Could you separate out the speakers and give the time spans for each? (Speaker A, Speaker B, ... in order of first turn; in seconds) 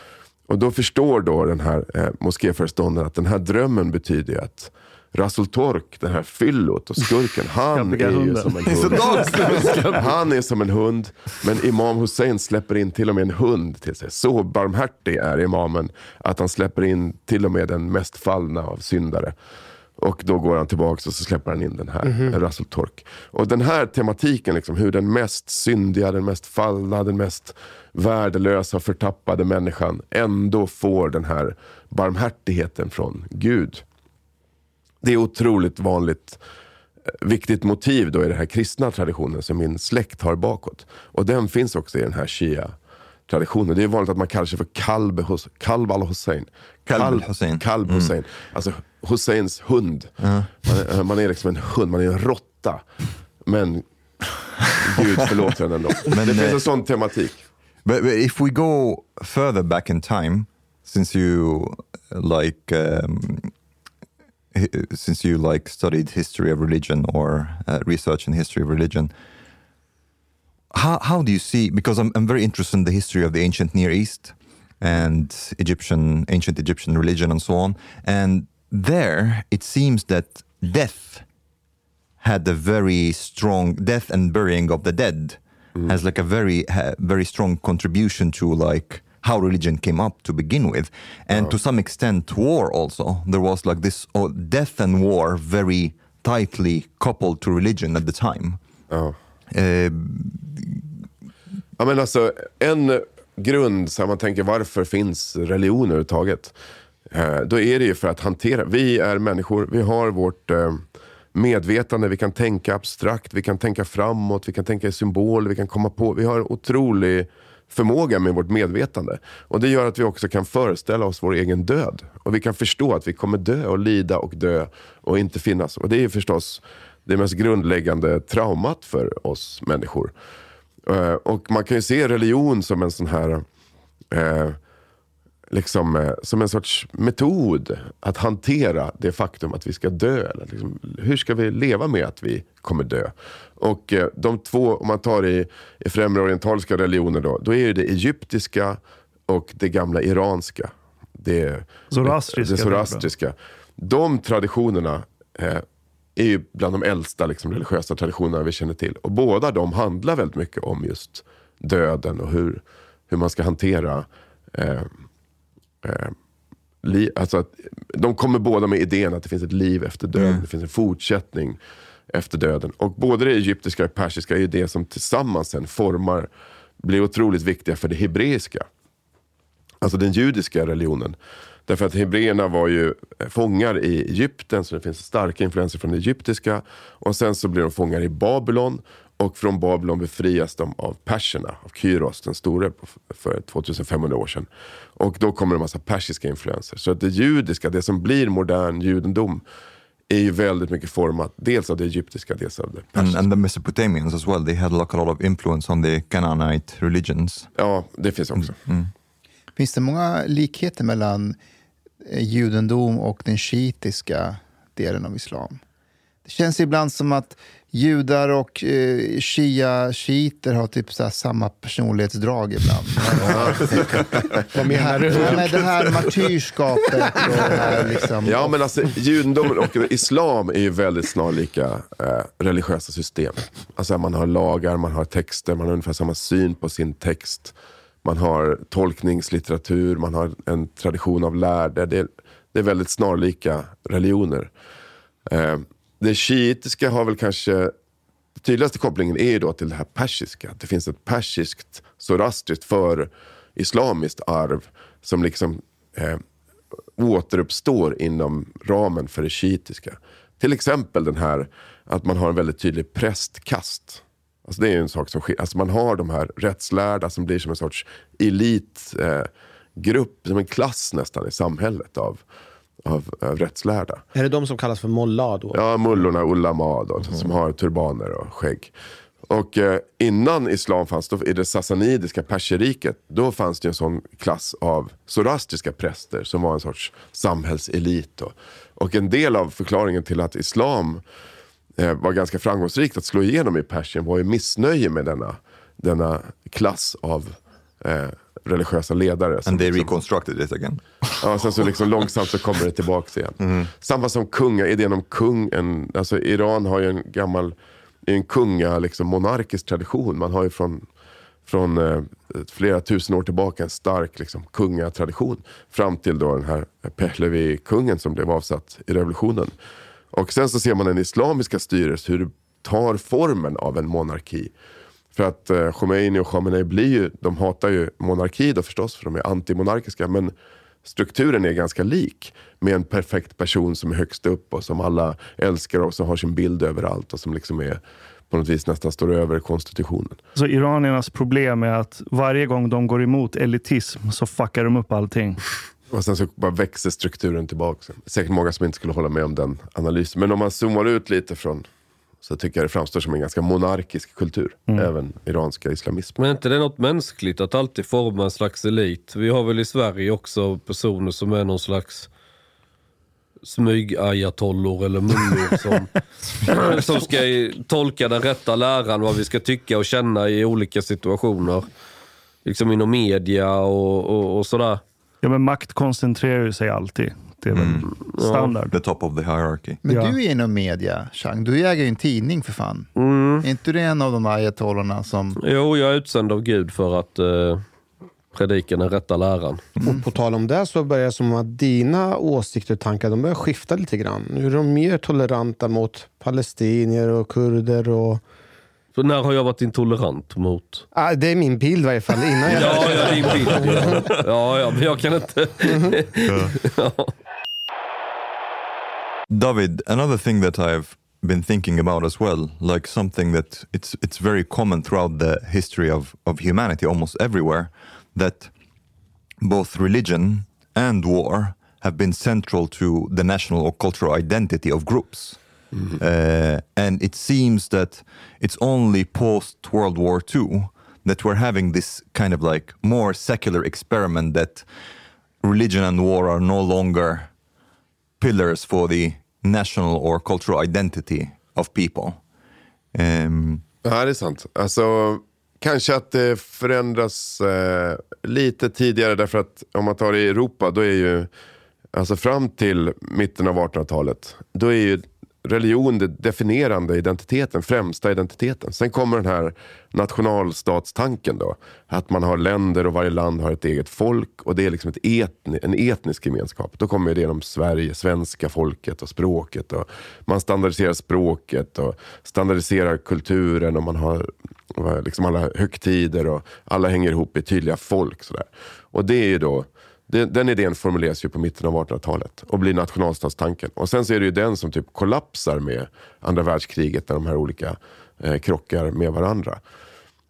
Speaker A: 0.5-19.3, 20.0-33.8, 35.0-36.4, 37.2-42.8, 43.3-50.1, 50.7-52.8, 53.5-53.8, 54.8-57.4, 91.3-91.6, 98.9-99.2, 101.8-106.5, 107.1-110.8, 111.3-130.1, 130.9-133.4, 134.1-134.6, 135.5-155.7, 156.2-164.9, 165.8-166.2, 166.8-171.6, 172.1-176.3, 176.8-178.7, 179.8-181.2, 181.7-199.4, 200.1-203.2, 207.6-208.6, 223.2-224.4, 228.2-244.5, 245.3-247.7, 248.4-256.2, 257.0-272.2, 272.8-274.0, 275.5-278.7, 279.3-291.0, 291.8-299.9, 301.2-307.6, 308.1-310.9, 311.5-319.5, 320.1-324.5, 325.1-330.3, 330.9-340.2, 345.9-351.6, 352.2-356.2, 443.8-451.3, 451.9-489.6
Speaker B: 7.7-10.0, 151.9-153.1, 340.4-345.4, 375.2-378.8, 379.9-380.2
Speaker C: 8.7-10.0, 46.9-48.1, 50.2-50.7, 56.1-56.6, 57.9-63.5, 64.5-69.1, 70.7-81.2, 82.2-98.6, 99.5-100.9, 170.2-170.4, 203.0-207.5, 208.4-208.9, 299.5-301.4, 303.4-303.7, 377.5-377.9, 378.7-379.8, 406.3-406.5, 409.3-418.5, 419.4-425.4, 426.0-434.7, 435.4-437.3, 438.2-442.2, 442.9-443.6
Speaker D: 9.4-9.8, 356.2-362.1, 363.4-366.0, 366.5-371.7, 372.4-374.8, 377.9-378.6, 383.0-383.5, 385.4-387.6, 388.3-389.7, 398.9-400.9, 402.4-407.1
Speaker E: 22.0-22.4, 224.5-226.2, 227.1-227.6, 274.1-275.6, 389.8-398.2, 400.9-404.2, 405.7-406.0
Speaker F: 209.6-211.4, 212.1-215.6, 216.3-223.9, 224.6-228.5, 379.8-382.9, 383.4-385.4